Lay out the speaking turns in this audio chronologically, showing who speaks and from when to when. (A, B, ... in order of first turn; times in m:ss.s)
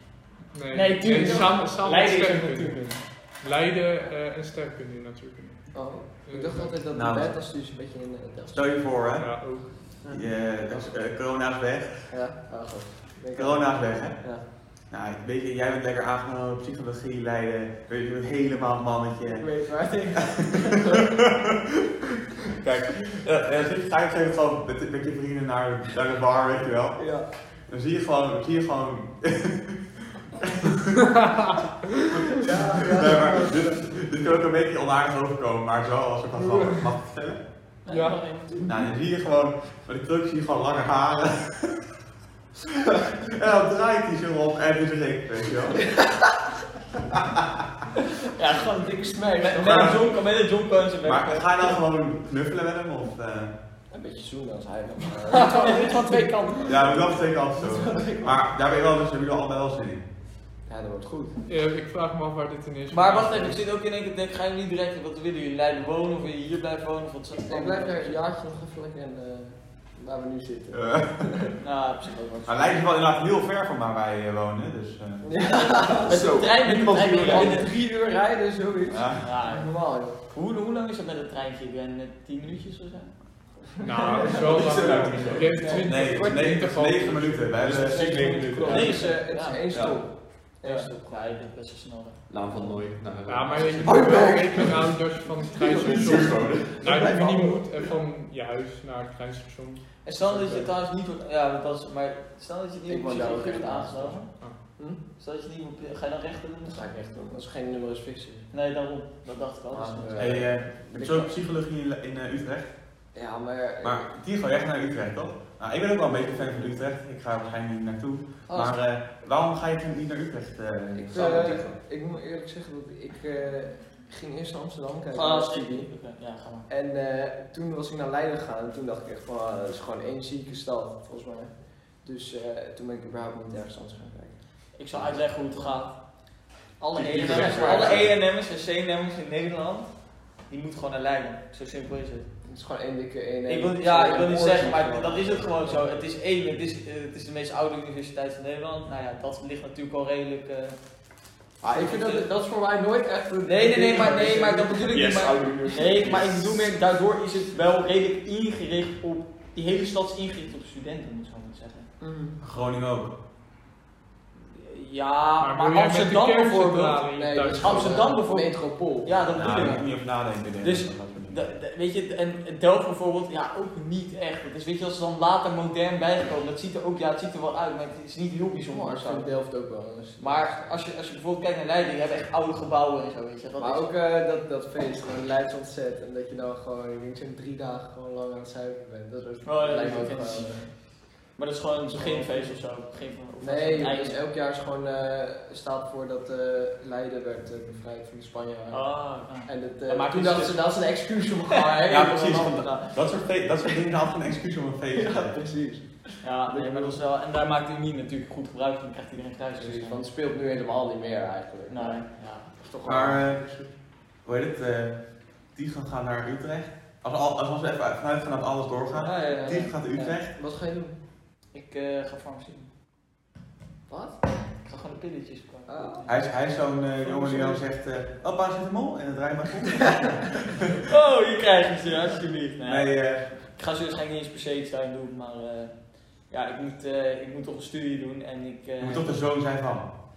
0:00.5-0:06.8 A
0:00.7-0:02.9 B
0:01.1-0:01.5 C
0:05.7-0:08.6 C
0:06.9-0:07.3 D
0:08.5-0:12.1 D
0:09.1-0:09.7 A
0:10.0-0:10.9 C
0:12.1-0:14.4 C
0:13.3-0:21.9 D
0:19.4-0:21.1 C
0:22.5-0:31.2 D
0:27.0-0:27.2 C
0:32.3-0:37.4 D
0:32.3-0:33.8 C
0:37.8-0:38.6 B
0:37.9-0:38.2 A
0:38.6-0:41.8 D
0:42.8-0:45.9 D
0:47.1-0:47.6 D
0:48.4-0:48.6 B
0:48.4-0:50.1 C
0:49.4-0:51.7 B
0:49.6-0:50.0 D
0:51.0-0:53.5 D
0:53.9-0:58.5 C
0:55.3-0:56.9 B
0:56.6-1:00.0 D
1:00.7-1:01.4 C
1:01.5-1:03.6 A
1:02.9-1:08.2 B
1:07.5-1:11.5 C
1:10.7-1:11.2 D
1:11.6-1:12.8 B
1:12.4-1:15.3 D
1:15.2-1:16.1 C
1:15.9-1:17.7 E
1:16.0-1:17.7 B
1:17.2-1:20.2 C
1:18.9-1:19.2 D
1:19.2-1:19.7 B
1:20.2-1:23.1 B
1:23.8-1:27.6 A
1:23.9-1:26.5 C
1:23.9-1:24.5 B
1:24.3-1:25.8 E
1:25.8-1:28.3 D
1:27.6-1:29.1 E
1:27.6-1:31.2 C
1:28.1-1:29.6 B
1:29.7-1:30.0 E
1:30.6-1:32.7 B
1:32.3-1:34.9 E
1:33.3-1:39.8 A
1:33.8-1:34.7 C
1:35.6-1:37.6 C
1:35.7-1:37.2 E
1:40.0-1:44.3 B
1:40.2-1:40.7 C
1:42.9-1:44.2 C
1:45.2-1:46.9 B
1:46.7-1:48.5 C
1:48.5-1:50.4 B
1:49.7-1:51.3 C
1:50.2-1:52.7 D
1:53.1-1:54.0 C
1:53.8-2:01.7 D
1:58.5-1:58.7 B
2:00.9-2:05.9 C
2:01.2-2:01.7 E
2:05.1-2:06.7 B
2:06.7-2:14.4 C
2:14.8-2:15.9 B
2:16.8-2:19.9 B
2:16.9-2:18.1 E
2:17.3-2:17.7 C
2:20.5-2:22.3 B
2:22.4-2:25.8 C
2:23.5-2:30.8 B
2:31.6-2:32.3 B
2:31.6-2:35.1 C
2:33.4-2:41.9 B
2:34.9-2:36.7 E
2:42.0-2:42.4 C
2:42.4-2:43.1 D
2:44.5-2:47.0 B
2:45.4-2:48.1 A
2:47.1-2:49.8 C
2:47.6-2:49.9 B
2:49.3-2:51.4 D
2:50.6-2:59.2 B
2:58.7-3:00.7 C
3:00.2-3:03.9 B
3:03.6-3:10.6 C
3:09.4-3:10.7 B
3:11.4-3:14.2 B
3:11.9-3:12.5 C
3:13.4-3:18.8 C
3:18.7-3:20.8 B
3:19.4-3:22.8 C
3:21.5-3:22.0 B
3:21.9-3:25.4 D
3:24.9-3:27.0 C
3:26.2-3:30.0 B
3:29.6-3:32.0 C
3:31.7-3:32.5 B
3:32.6-3:33.7 C
3:32.8-3:33.4 D
3:34.2-3:35.0 D
3:35.5-3:40.3 D
3:39.0-3:39.7 B
3:39.0-3:40.9 C
3:41.5-3:42.7 B
3:43.9-3:44.2 C
3:44.5-3:46.1 B
3:45.7-3:46.1 C
3:46.1-3:50.8 D
3:47.0-3:47.6 C
3:50.8-3:55.7 B
3:52.6-3:53.2 D
3:56.3-3:59.1 B
3:58.8-3:59.9 D